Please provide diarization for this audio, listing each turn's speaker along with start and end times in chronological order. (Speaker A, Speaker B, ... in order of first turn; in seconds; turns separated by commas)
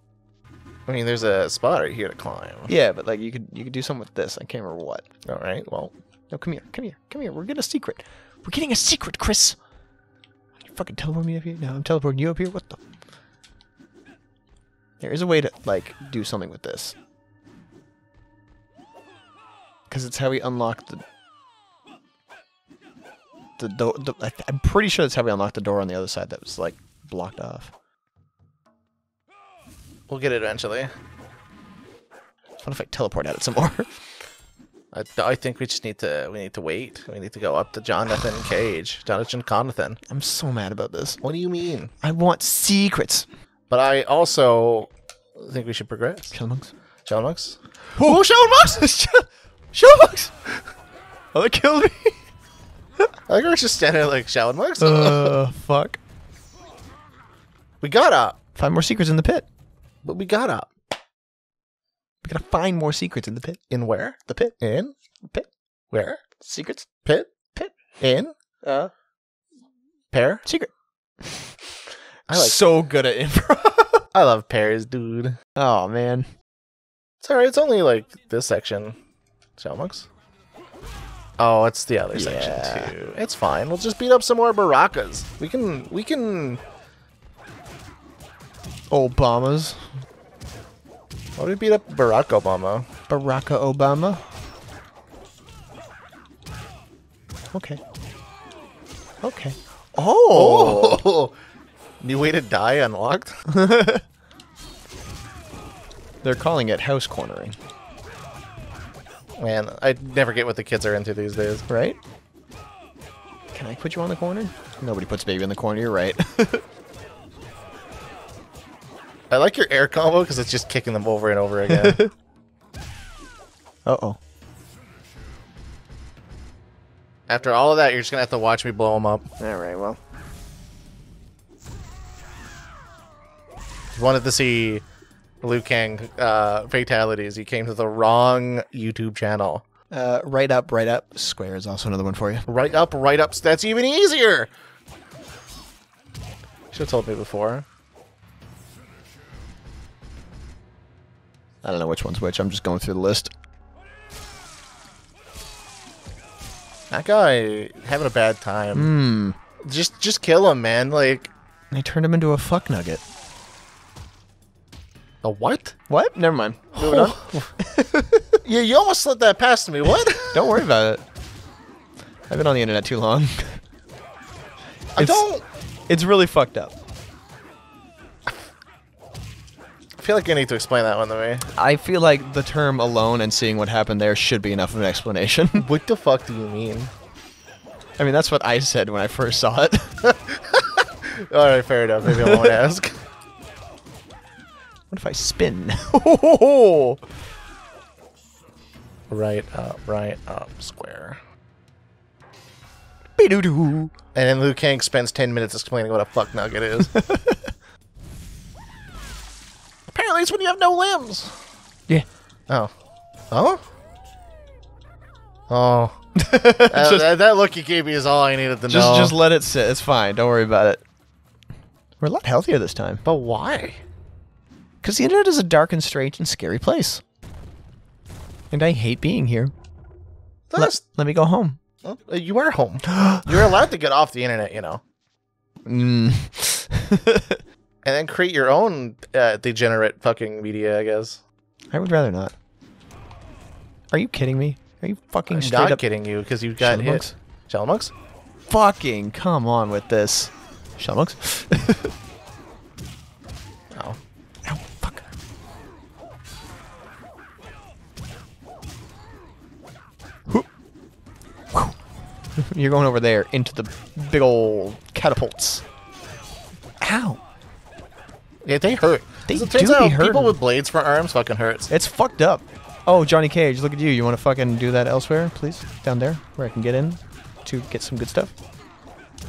Speaker A: 0.8-2.7, Speaker B: 2.7-5.0, Speaker A: 5.2-5.9, Speaker B: 6.3-9.6, Speaker B: 10.6-12.8, Speaker B: 15.0-16.9, Speaker B: 19.9-21.0, Speaker B: 23.6-27.7, Speaker A: 30.1-30.9, Speaker B: 32.6-33.9, Speaker A: 34.9-40.0, Speaker B: 40.1-41.2, Speaker A: 41.2-41.9, Speaker B: 42.0-43.2, Speaker A: 43.7-46.4, Speaker B: 46.3-46.7, Speaker A: 47.0-48.8, Speaker B: 48.0-50.3, Speaker B: 51.3-52.2, Speaker A: 53.3-55.4, Speaker B: 54.8-56.0, Speaker A: 57.8-58.4, Speaker B: 58.5-59.5, Speaker A: 60.0-60.7, Speaker B: 62.2-63.6, Speaker A: 63.7-64.9, Speaker B: 64.3-64.5, Speaker A: 65.9-66.2, Speaker B: 66.4-66.9, Speaker A: 67.0-67.3, Speaker A: 68.0-68.3, Speaker B: 68.6-68.9, Speaker A: 70.1-70.4, Speaker B: 70.4-71.5, Speaker A: 72.3-72.6, Speaker B: 72.3-74.0, Speaker A: 74.1-75.4, Speaker B: 75.5-76.3, Speaker A: 77.2-79.0, Speaker A: 79.6-80.1, Speaker A: 81.4-86.6, Speaker B: 82.1-82.9, Speaker B: 88.9-89.8, Speaker A: 91.4-92.9, Speaker B: 93.1-94.2, Speaker B: 97.5-97.8, Speaker B: 99.2-101.0, Speaker A: 100.3-101.3, Speaker A: 102.0-103.3, Speaker B: 103.5-104.0, Speaker B: 106.2-107.6, Speaker A: 109.4-111.6, Speaker B: 111.7-112.0, Speaker B: 113.5-116.6, Speaker A: 119.3-122.0, Speaker B: 121.7-122.1, Speaker B: 123.8-124.2, Speaker A: 127.3-129.3, Speaker B: 129.4-130.0, Speaker A: 133.9-134.8, Speaker A: 135.4-139.6, Speaker B: 139.9-142.4, Speaker A: 142.5-144.5, Speaker A: 146.7-147.7, Speaker B: 151.6-153.3, Speaker A: 156.9-158.9, Speaker B: 158.7-159.4, Speaker A: 159.6-161.3, Speaker B: 161.7-163.0, Speaker A: 165.2-165.8, Speaker B: 165.9-168.4, Speaker A: 166.8-167.5, Speaker A: 168.4-170.6, Speaker B: 170.3-171.0, Speaker B: 172.3-173.6, Speaker B: 174.9-175.2, Speaker A: 175.0-175.4, Speaker B: 175.9-176.7, Speaker A: 180.0-181.5, Speaker B: 181.5-185.7, Speaker A: 185.6-186.9, Speaker B: 188.0-190.0, Speaker A: 190.0-193.0, Speaker B: 192.1-192.4, Speaker B: 194.9-197.0, Speaker A: 199.1-201.2, Speaker B: 203.2-203.9, Speaker A: 204.1-206.9, Speaker B: 206.9-207.5, Speaker A: 209.9-211.4, Speaker A: 213.3-213.6, Speaker A: 215.5-216.0, Speaker B: 216.2-217.1, Speaker A: 216.7-219.2, Speaker B: 218.7-220.8, Speaker B: 222.0-223.0, Speaker A: 223.0-223.8, Speaker B: 224.8-227.0, Speaker B: 228.5-229.5, Speaker A: 230.5-230.8, Speaker B: 230.6-231.6, Speaker A: 231.8-234.8, Speaker B: 232.9-233.3, Speaker B: 235.6-237.4, Speaker A: 237.8-241.2, Speaker B: 241.7-242.3, Speaker B: 243.9-245.8, Speaker A: 245.3-247.9, Speaker B: 246.6-247.1, Speaker B: 248.5-251.9, Speaker A: 253.7-254.0, Speaker B: 254.4-255.0, Speaker B: 262.4-265.6, Speaker B: 266.8-267.2, Speaker A: 268.4-271.7, Speaker B: 269.3-270.3, Speaker B: 271.7-278.3